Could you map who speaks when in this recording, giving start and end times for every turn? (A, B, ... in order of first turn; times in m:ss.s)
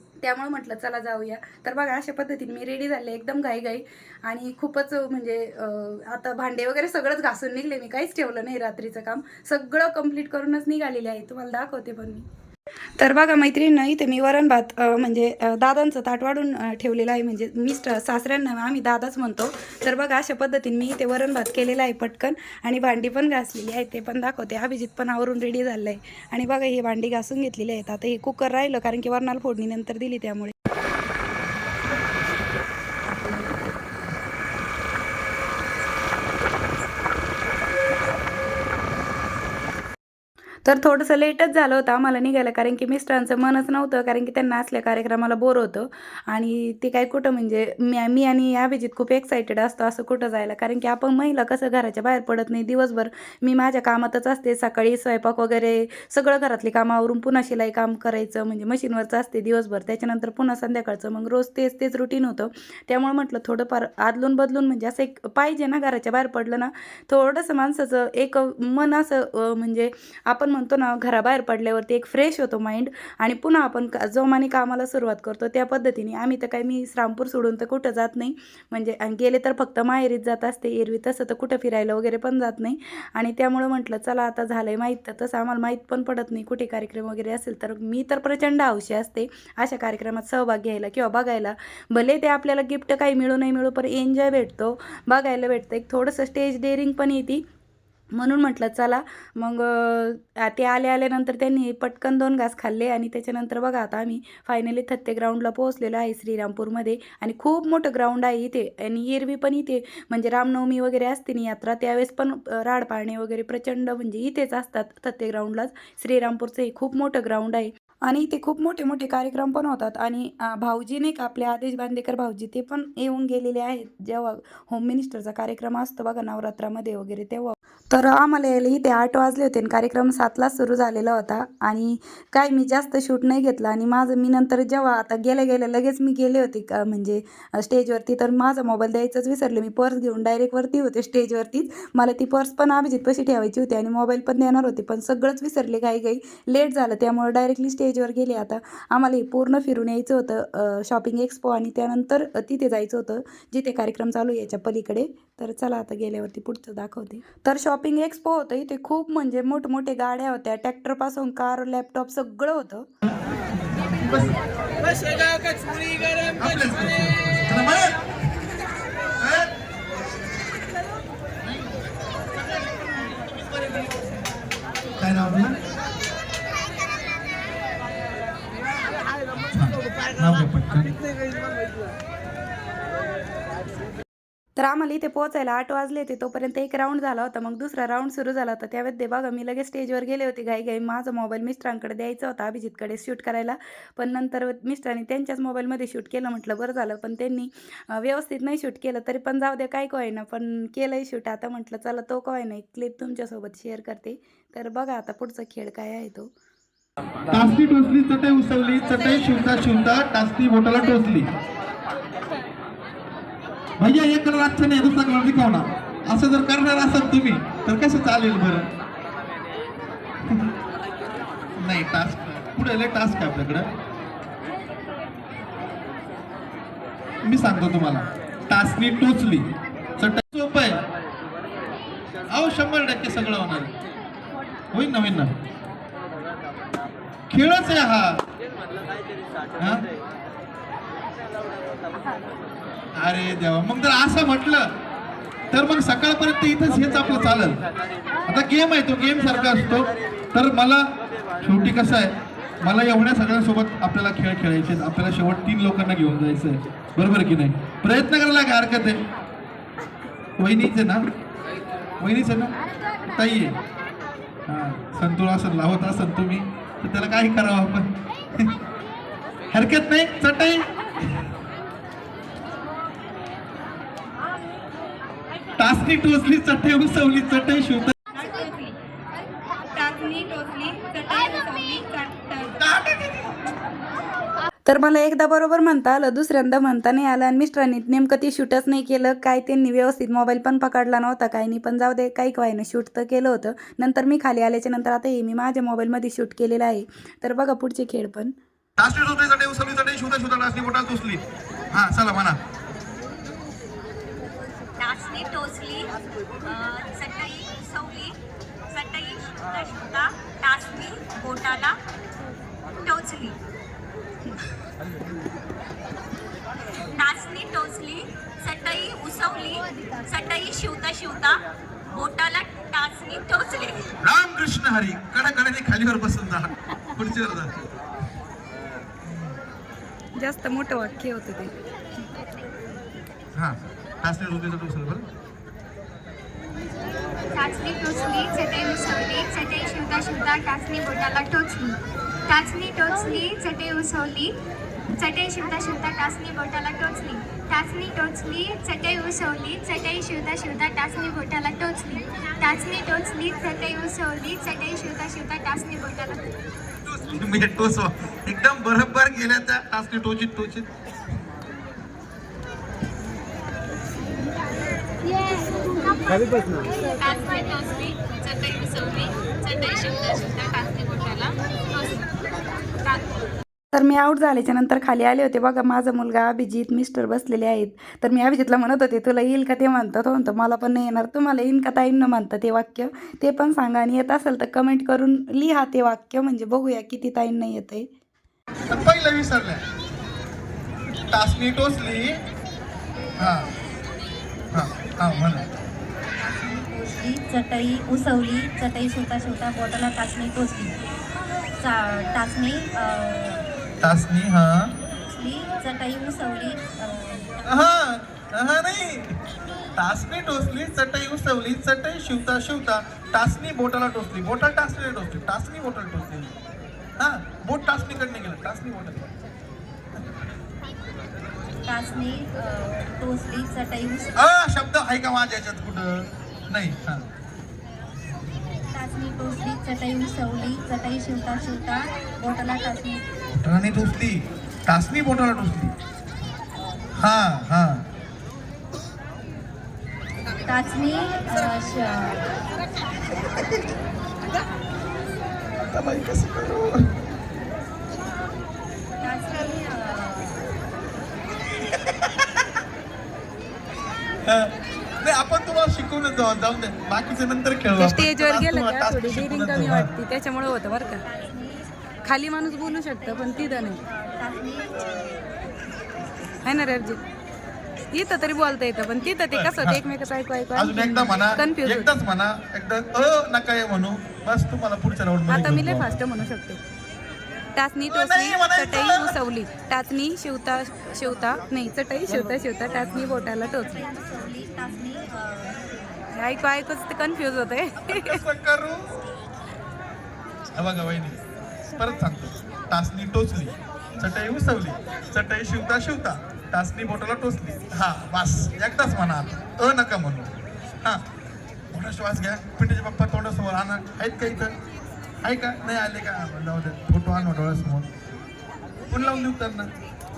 0:00.2-0:12.2 A
0:13.0-0:30.6 A
0:40.6-1:37.4 A
1:38.2-2:42.9 A
2:43.7-2:45.2 B
2:46.4-2:48.0 B
2:49.2-2:49.5 B
2:52.9-2:53.4 B
2:55.0-2:55.6 B
2:59.5-3:01.0 B
3:04.6-3:26.3 A
3:27.3-3:31.3 B
3:33.8-3:38.7 B
3:41.6-3:43.7 B
3:47.3-3:49.5 B
3:50.0-3:50.8 B
3:52.3-3:53.7 B
3:54.7-3:55.3 B
3:57.3-3:58.2 B
3:59.6-3:59.9 B
4:03.0-4:04.7 B
4:05.5-4:07.6 B
4:08.3-4:19.0 B
4:20.4-4:21.0 B
4:22.0-4:23.6 B
4:24.5-4:28.5 B
4:29.5-4:31.2 B
4:35.6-4:37.9 B
4:38.1-4:38.8 A
4:39.8-4:42.6 A
4:42.6-4:43.4 B
4:44.7-4:58.3 A
4:58.8-5:02.4 B
5:04.8-5:05.9 C
5:06.4-5:08.2 C
5:08.7-5:11.8 C
5:12.8-5:13.4 C
5:17.0-5:23.9 C
5:24.0-5:27.6 B
5:29.1-5:29.4 B
5:30.2-5:31.5 A
5:33.4-5:35.0 B
5:37.3-5:44.3 D
5:45.0-5:56.3 D
5:56.9-6:00.7 B
6:06.1-6:12.0 D
6:13.7-6:27.9 A
6:28.7-6:29.6 B
6:31.1-6:32.2 B
6:33.2-6:33.5 B
6:34.5-6:35.5 B
6:36.2-6:40.7 E
6:41.6-6:43.5 E
6:43.8-6:44.7 B
6:45.1-6:47.3 E
6:47.5-6:49.2 B
6:49.8-6:56.4 B
6:57.0-6:59.1 B
7:01.6-7:04.1 E
7:04.2-7:07.0 B
7:08.7-7:13.0 E
7:13.4-7:15.7 B
7:17.0-7:17.8 B
7:20.5-7:22.2 E
7:25.7-7:26.9 B
7:29.0-7:30.5 E
7:34.2-7:39.9 B
7:37.8-7:41.1 A
7:41.0-7:45.5 E
7:42.0-7:43.8 A
7:46.4-7:47.0 A
7:47.9-7:51.9 A
7:49.3-7:49.9 B
7:50.6-7:56.1 B
7:55.3-7:56.6 A
7:57.6-8:03.8 A
7:57.9-7:59.2 B
8:03.7-8:06.0 E
8:06.1-8:08.2 A
8:07.9-8:09.0 B
8:10.6-8:11.2 B
8:11.7-8:20.3 B
8:21.7-8:24.5 B
8:25.2-8:27.9 B
8:28.9-8:29.7 B